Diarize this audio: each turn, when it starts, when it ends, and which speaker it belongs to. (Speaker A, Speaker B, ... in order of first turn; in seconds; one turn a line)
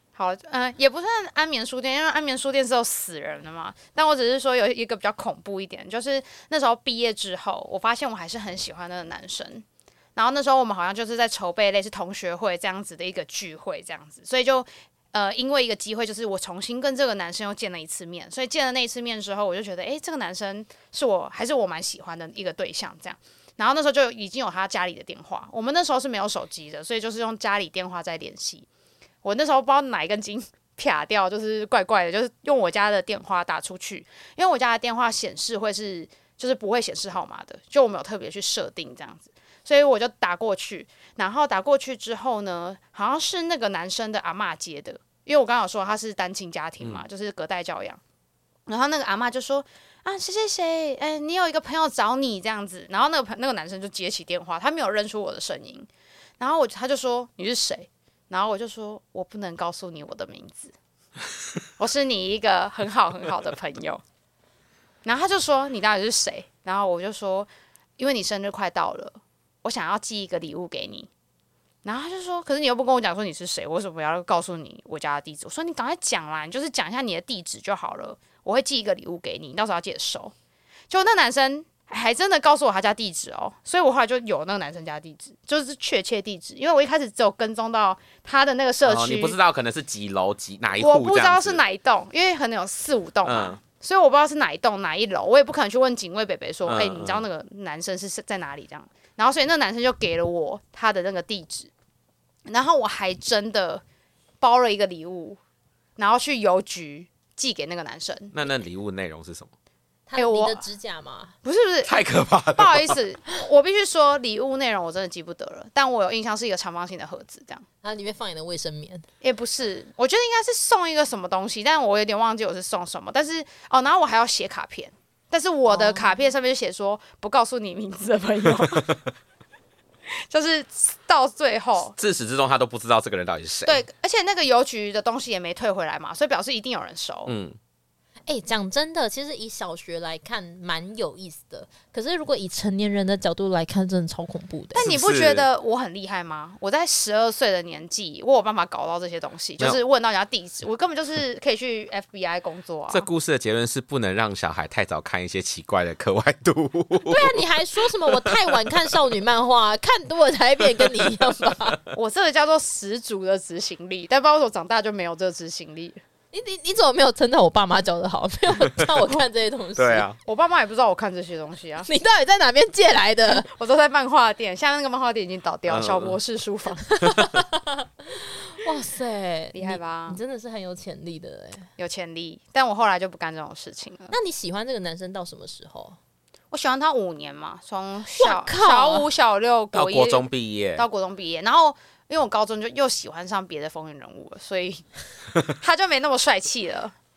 Speaker A: 0.1-9.7
Speaker A: 10.2-28.7
Speaker A: 29.2-48.0
Speaker A: 48.7-55.9
Speaker A: 56.4-60.7
Speaker A: 61.8-64.0
Speaker A: 65.0-71.1
Speaker A: 71.8-80.3
Speaker A: 80.9-89.4
Speaker B: 88.8-91.6
Speaker A: 90.8-101.7
Speaker B: 93.2-93.6
Speaker B: 96.7-97.2
Speaker A: 102.5-103.8
Speaker A: 104.4-105.4
Speaker A: 106.0-108.3
Speaker B: 108.3-109.5
Speaker C: 110.1-111.3
Speaker A: 110.2-110.6
Speaker A: 111.4-117.7
Speaker B: 111.8-113.0
Speaker C: 117.8-119.1
Speaker A: 119.2-128.9
Speaker C: 125.7-126.3
Speaker B: 128.7-129.0
Speaker A: 130.1-131.9
Speaker B: 132.0-133.8
Speaker A: 133.7-137.3
Speaker B: 137.3-137.6
Speaker C: 138.3-144.9
Speaker A: 144.7-153.1
Speaker B: 144.8-145.5
Speaker B: 152.9-157.4
Speaker C: 157.1-161.8
Speaker B: 158.1-158.3
Speaker A: 161.9-166.0
Speaker C: 166.3-170.1
Speaker B: 169.8-170.2
Speaker A: 170.2-171.9
Speaker C: 171.8-173.5
Speaker A: 173.4-176.9
Speaker B: 175.7-176.2
Speaker C: 176.9-181.7
Speaker A: 179.5-180.2
Speaker A: 181.8-184.2
Speaker C: 184.1-186.0
Speaker A: 186.5-194.8
Speaker C: 188.2-189.1
Speaker B: 189.7-190.8
Speaker A: 195.5-196.9